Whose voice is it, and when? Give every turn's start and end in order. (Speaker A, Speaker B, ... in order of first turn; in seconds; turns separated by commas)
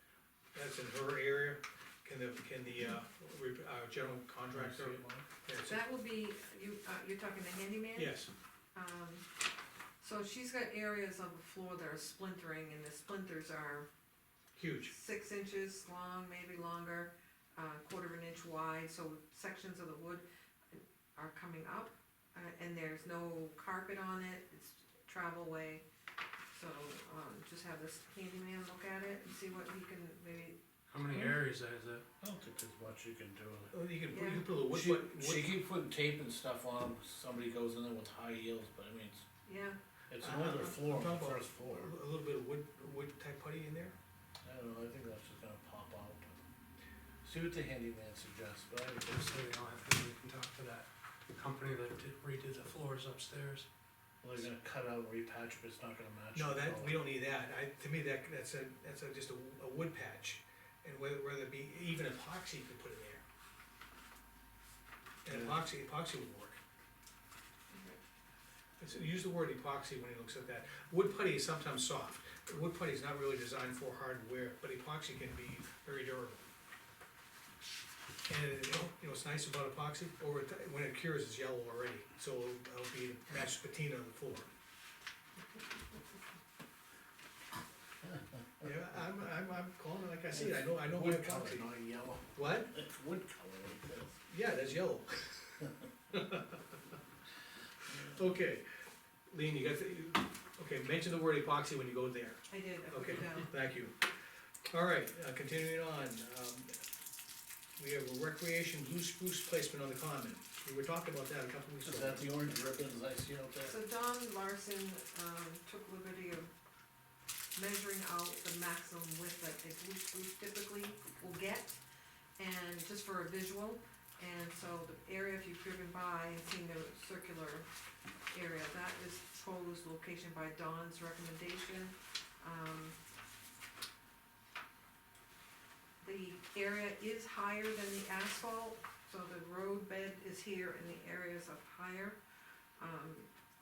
Speaker A: 0.5-5.8, Speaker B: 4.5-5.2, Speaker C: 5.6-8.2, Speaker A: 8.0-8.3, Speaker C: 8.7-9.2, Speaker C: 10.0-13.9, Speaker A: 14.6-14.9, Speaker C: 14.9-25.8, Speaker C: 26.5-30.6, Speaker D: 30.9-32.0, Speaker B: 32.2-33.7, Speaker A: 33.7-35.5, Speaker C: 34.1-34.6, Speaker B: 34.7-39.2, Speaker C: 39.4-39.8, Speaker B: 40.1-41.9, Speaker A: 40.2-43.9, Speaker B: 44.4-46.4, Speaker B: 47.2-49.4, Speaker D: 49.1-53.7, Speaker B: 54.2-57.0, Speaker A: 56.3-63.2, Speaker A: 65.2-66.6, Speaker C: 67.7-68.0, Speaker A: 68.8-76.4, Speaker A: 78.3-84.5, Speaker A: 88.6-91.7, Speaker B: 90.3-94.2, Speaker A: 92.3-92.7, Speaker A: 94.3-96.6, Speaker A: 97.9-98.6, Speaker A: 99.3-104.1, Speaker C: 102.5-103.5, Speaker A: 104.7-106.7, Speaker A: 107.8-112.3, Speaker B: 111.8-113.7, Speaker C: 113.6-116.5, Speaker C: 117.5-121.8, Speaker C: 122.4-127.7, Speaker C: 128.3-132.9, Speaker C: 136.0-142.2, Speaker C: 142.8-143.3